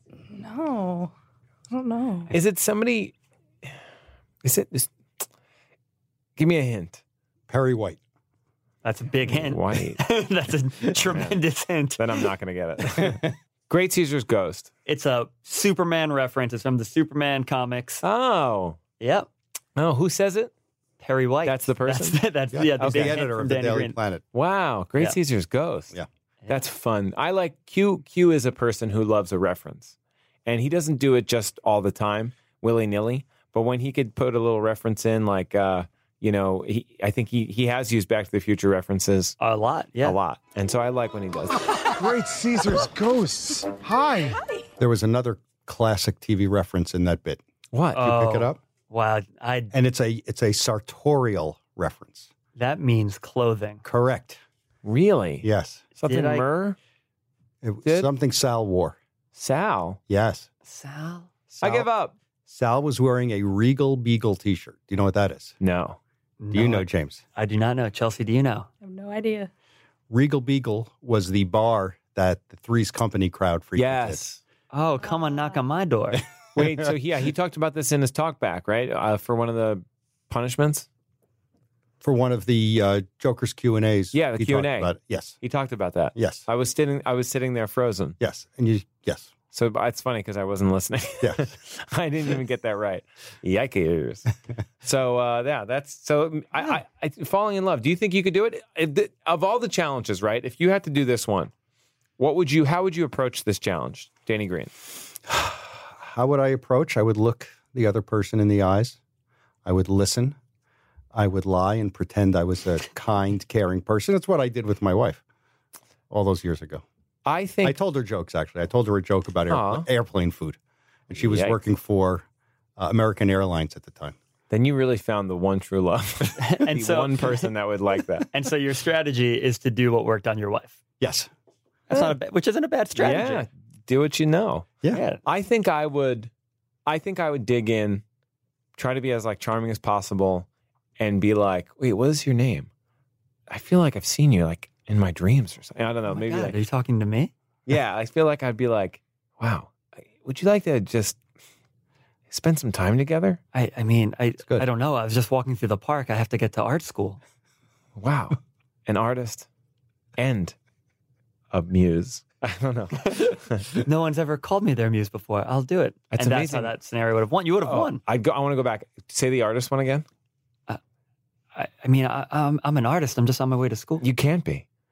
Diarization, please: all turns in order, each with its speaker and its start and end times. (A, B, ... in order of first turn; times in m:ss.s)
0:00.3-0:01.1 A
0:01.7-0:02.3 A
0:02.3-0:03.1 B
0:04.4-0:04.9 B
0:06.4-0:07.0 B
0:07.5-0:08.0 C
0:08.8-0:12.2 D
0:09.3-0:10.0 B
0:10.9-0:11.4 B
0:12.0-0:14.7 B
0:14.8-0:18.0 D
0:18.0-0:18.8 B
0:19.0-0:19.3 D
0:19.8-0:20.5 B
0:21.0-0:24.0 D
0:21.4-0:22.2 B
0:22.5-0:24.2 C
0:22.8-0:23.2 B
0:24.3-0:25.9 B
0:26.5-0:29.9 B
0:30.4-0:39.4 B
0:39.4-0:40.2 D
0:40.0-0:41.8 B
0:41.9-0:44.4 E
0:44.8-0:47.4 C
0:47.7-0:48.0 B
0:47.9-0:48.6 C
0:47.9-0:49.7 D
0:49.7-0:52.3 C
0:52.6-0:53.8 D
0:53.8-0:54.4 C
0:54.8-0:56.8 B
0:55.4-0:55.8 C
0:56.0-0:56.4 D
0:57.6-0:59.0 C
0:57.8-0:58.1 B
0:59.3-1:00.0 B
1:00.1-1:00.5 C
1:00.6-1:01.3 D
1:01.5-1:01.9 C
1:01.6-1:02.1 B
1:02.5-1:05.5 C
1:05.6-1:06.0 B
1:06.4-1:08.7 D
1:06.5-1:07.2 C
1:08.8-1:09.5 A
1:10.1-1:14.2 C
1:13.8-1:14.4 B
1:14.7-1:16.2 D
1:15.1-1:15.4 A
1:16.6-1:16.9 C
1:16.6-1:20.9 B
1:22.0-1:25.4 C
1:24.1-1:28.2 B
1:26.1-1:26.4 C
1:28.2-1:29.3 C
1:29.5-1:34.3 B
1:31.2-1:31.5 C
1:34.8-1:41.5 B
1:42.2-1:44.7 B
1:45.3-1:49.0 C
1:49.6-1:50.4 C
1:51.1-1:55.2 C
1:56.1-1:56.8 C
1:57.2-1:57.8 B
1:57.6-2:00.6 C
1:59.5-1:59.9 B
2:01.1-2:02.2 C
2:01.2-2:01.6 B
2:02.8-2:04.2 C
2:04.5-2:08.3 B
2:06.4-2:07.4 D
2:08.3-2:10.8 D
2:11.0-2:11.3 C
2:11.9-2:13.4 D
2:13.0-2:14.7 B
2:14.9-2:15.2 D
2:15.2-2:16.3 B
2:16.8-2:18.0 B
2:18.8-2:20.5 B
2:21.0-2:22.7 B
2:23.5-2:26.6 B
2:26.1-2:27.3 D
2:27.7-2:31.2 B
2:32.3-2:33.4 B
2:33.5-2:37.2 D
2:38.0-2:39.5 B
2:40.2-2:40.5 B
2:41.5-2:43.8 B
2:43.1-2:48.0 D
2:46.1-2:46.7 B
2:47.6-2:50.0 B
2:51.5-2:54.0 D
2:54.0-2:54.6 B